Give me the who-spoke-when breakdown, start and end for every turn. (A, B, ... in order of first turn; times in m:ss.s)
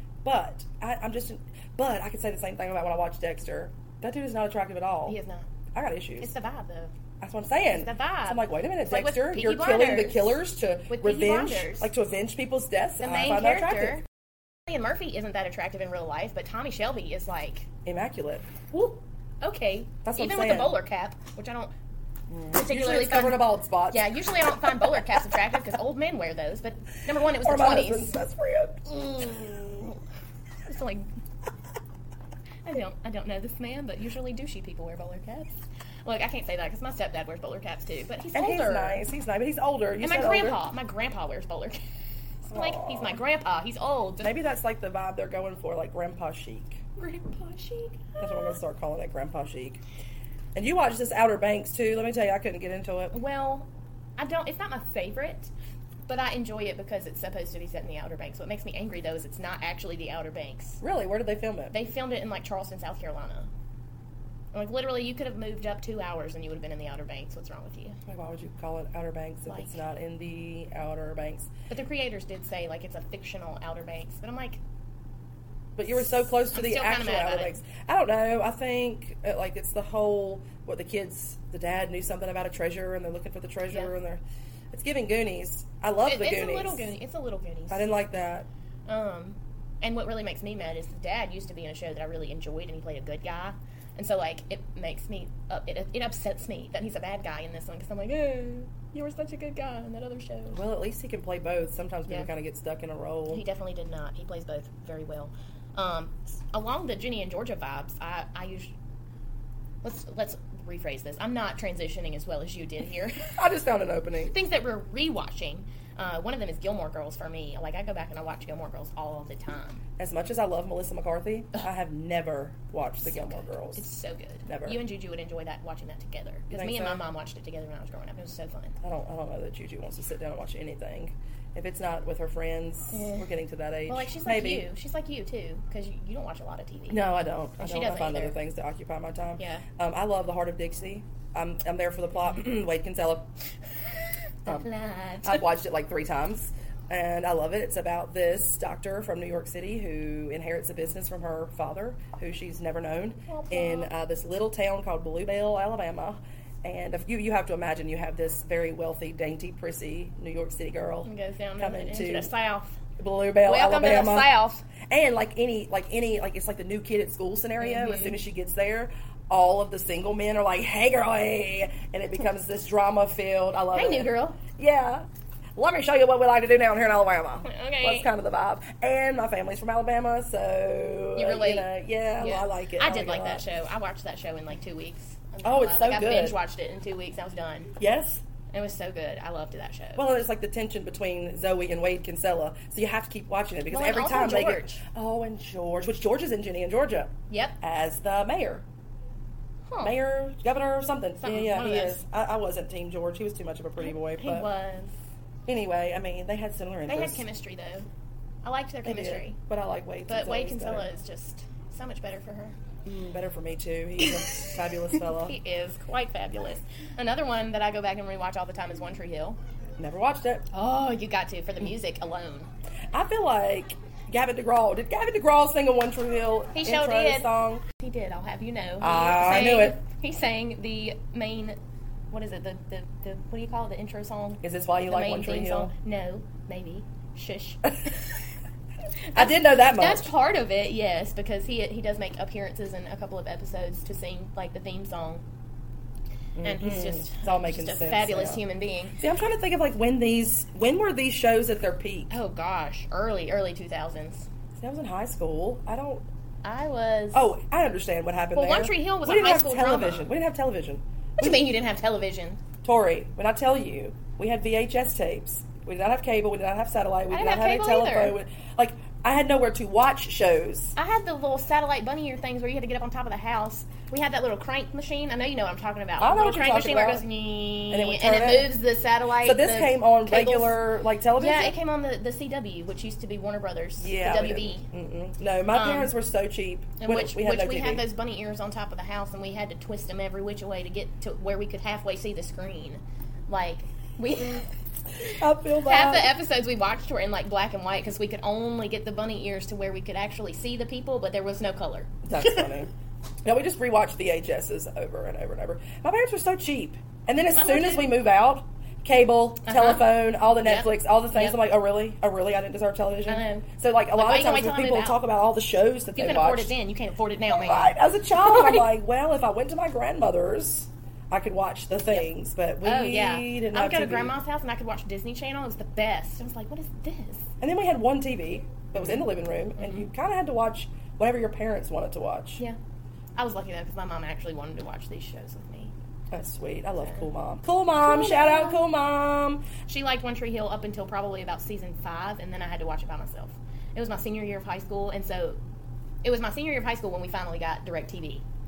0:00.2-0:05.2 A
0:05.1-0:05.5 B
0:05.7-0:06.3 A
0:06.2-0:06.9 B
0:07.2-0:14.0 A
0:07.7-0:11.9 B
0:13.0-0:14.0 B
0:14.6-0:17.7 B
0:17.8-0:18.5 A
0:18.7-0:21.7 B
0:20.0-0:20.8 A
0:22.3-0:24.4 A
0:22.5-0:28.2 B
0:27.4-0:29.9 A
0:30.6-0:31.1 B
0:32.6-0:39.0 B
0:38.3-0:40.6 A
0:40.0-0:41.8 B
0:42.5-0:43.2 A
0:42.5-0:44.3 B
0:44.2-0:46.8 A
0:47.0-0:48.6 B
0:48.2-0:49.8 A
0:50.5-0:53.1 A
0:53.1-0:55.5 B
0:56.1-1:00.8 B
1:00.8-1:01.7 A
1:01.7-1:03.5 B
1:04.5-1:08.0 B
1:08.1-1:11.5 A
1:09.5-1:09.8 B
1:11.7-1:14.6 B
1:15.8-1:24.2 A
1:16.5-1:17.6 B
1:24.7-1:26.9 A
1:26.0-1:27.9 B
1:27.7-1:28.5 A
1:28.9-1:40.6 B
1:40.5-1:43.4 A
1:43.3-1:48.7 B
1:49.8-1:53.3 B
1:53.4-1:54.3 A
1:54.3-1:59.8 B
2:00.0-2:03.8 A
2:03.1-2:08.8 B
2:04.4-2:04.8 A
2:06.5-2:07.0 A
2:08.8-2:14.6 A
2:12.9-2:13.2 B
2:13.9-2:17.0 B
2:16.9-2:23.3 A
2:17.6-2:18.4 B
2:19.4-2:19.6 B
2:24.4-2:25.4 B
2:25.2-2:42.3 A
2:33.3-2:33.9 B
2:41.0-2:42.8 B
2:43.0-2:44.3 A
2:43.4-2:44.6 B
2:44.9-2:55.0 A
2:47.6-2:48.2 B
2:53.7-2:54.4 B
2:55.6-3:03.4 A
2:57.4-2:58.1 B
3:01.2-3:01.7 B
3:02.2-3:07.7 B
3:05.4-3:06.4 A
3:07.8-3:08.2 A
3:08.5-3:10.0 B
3:10.0-3:18.6 A
3:13.7-3:14.8 B
3:17.3-3:17.6 B
3:19.7-3:19.9 B
3:19.8-3:24.5 A
3:21.2-3:22.0 B
3:23.8-3:24.9 B
3:25.5-3:27.2 A
3:26.9-3:27.9 B
3:28.4-3:29.4 B
3:28.8-3:30.9 A
3:30.1-3:32.6 B
3:32.8-3:35.4 A
3:34.0-3:39.4 B
3:39.8-3:40.4 A
3:40.5-3:42.5 B
3:42.9-3:47.6 A
3:46.5-3:51.6 B
3:48.8-3:49.8 A
3:52.1-3:58.1 B
3:54.4-3:55.7 A
3:59.1-4:05.2 B
3:59.1-4:00.1 A
4:06.4-4:08.4 A
4:06.4-4:09.0 B
4:09.0-4:12.2 A
4:12.1-4:14.3 B
4:14.6-4:16.0 A
4:16.4-4:17.3 B
4:17.1-4:21.4 A
4:18.3-4:20.1 B
4:21.2-4:22.4 B
4:22.6-4:30.7 A
4:27.1-4:28.2 B
4:30.8-4:40.6 B
4:36.0-4:37.0 A
4:37.7-4:38.5 A
4:39.2-4:41.6 A
4:41.2-4:44.6 B
4:43.8-4:47.8 A
4:45.5-4:45.9 B
4:46.8-4:54.5 B
4:55.0-5:02.5 B
4:55.0-4:56.1 A
5:02.0-5:02.7 A
5:03.2-5:16.5 A
5:07.3-5:07.9 B
5:09.4-5:09.9 B
5:10.4-5:11.4 B
5:13.1-5:15.0 B
5:16.0-5:18.7 B
5:17.3-5:24.1 A
5:22.6-5:27.3 B
5:27.4-5:32.4 A
5:28.8-5:29.0 B
5:29.6-5:29.8 B
5:33.2-5:35.7 B
5:36.1-5:39.5 A
5:36.8-5:37.0 B
5:37.8-5:38.6 B
5:39.6-5:45.4 B
5:46.0-5:48.2 B